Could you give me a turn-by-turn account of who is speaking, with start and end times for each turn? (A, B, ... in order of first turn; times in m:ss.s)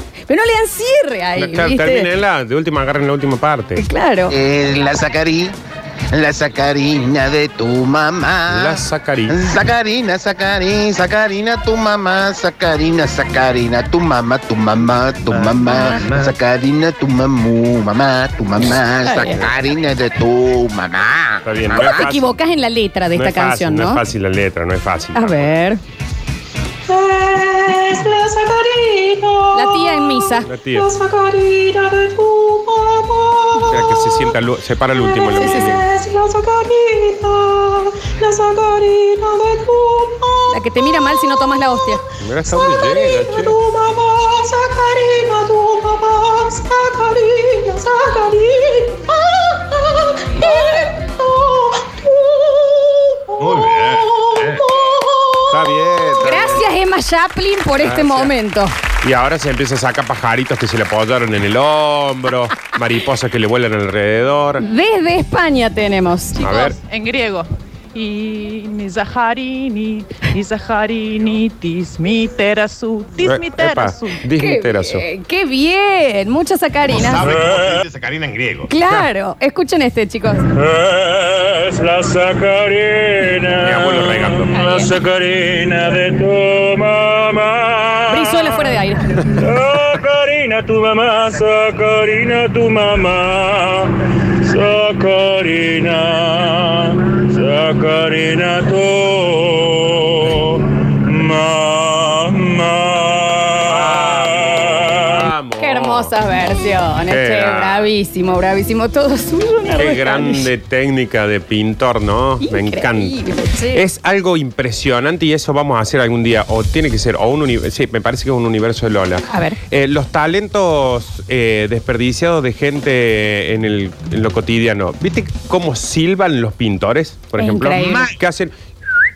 0:00.3-0:02.1 A
0:01.4-0:03.8 B
0:03.8-0:04.3 A
0:04.3-0:05.5 C
0:06.1-0:22.0 C
0:08.5-0:09.4 B
0:15.3-0:16.3 B
0:15.8-0:16.0 A
0:19.0-0:19.4 A
0:21.4-0:22.3 B
0:21.8-0:24.0 A
0:23.1-0:25.5 B
0:25.1-0:25.8 A
0:26.9-0:34.1 D
0:29.5-0:30.5 A
0:30.4-0:30.9 B
0:33.6-0:35.8 B
0:35.1-0:40.5 D
0:35.4-0:35.8 A
0:40.5-0:42.0 A
0:42.2-0:43.6 B
0:42.5-0:55.0 D
0:50.4-0:50.9 A
0:53.4-0:54.6 E
0:54.7-0:55.5 A
0:55.5-0:56.7 B
0:56.2-0:58.7 A
0:57.8-0:58.3 B
0:59.0-1:04.6 B
1:04.6-1:06.7 A
1:06.4-1:06.8 B
1:06.7-1:14.2 F
1:13.2-1:15.0 B
1:14.3-1:17.2 A
1:16.9-1:18.7 E
1:17.2-1:17.8 G
1:18.7-1:20.5 A
1:20.5-1:28.7 G
1:23.6-1:24.6 B
1:24.5-1:24.9 A
1:28.1-1:29.2 A
1:29.3-1:45.2 G
1:43.7-1:46.1 B
1:45.6-1:50.5 A
1:47.1-1:47.9 B
1:49.7-1:53.2 B
1:52.4-1:53.8 A
1:53.7-2:08.5 B
1:59.3-1:59.6 A
2:07.4-2:08.1 A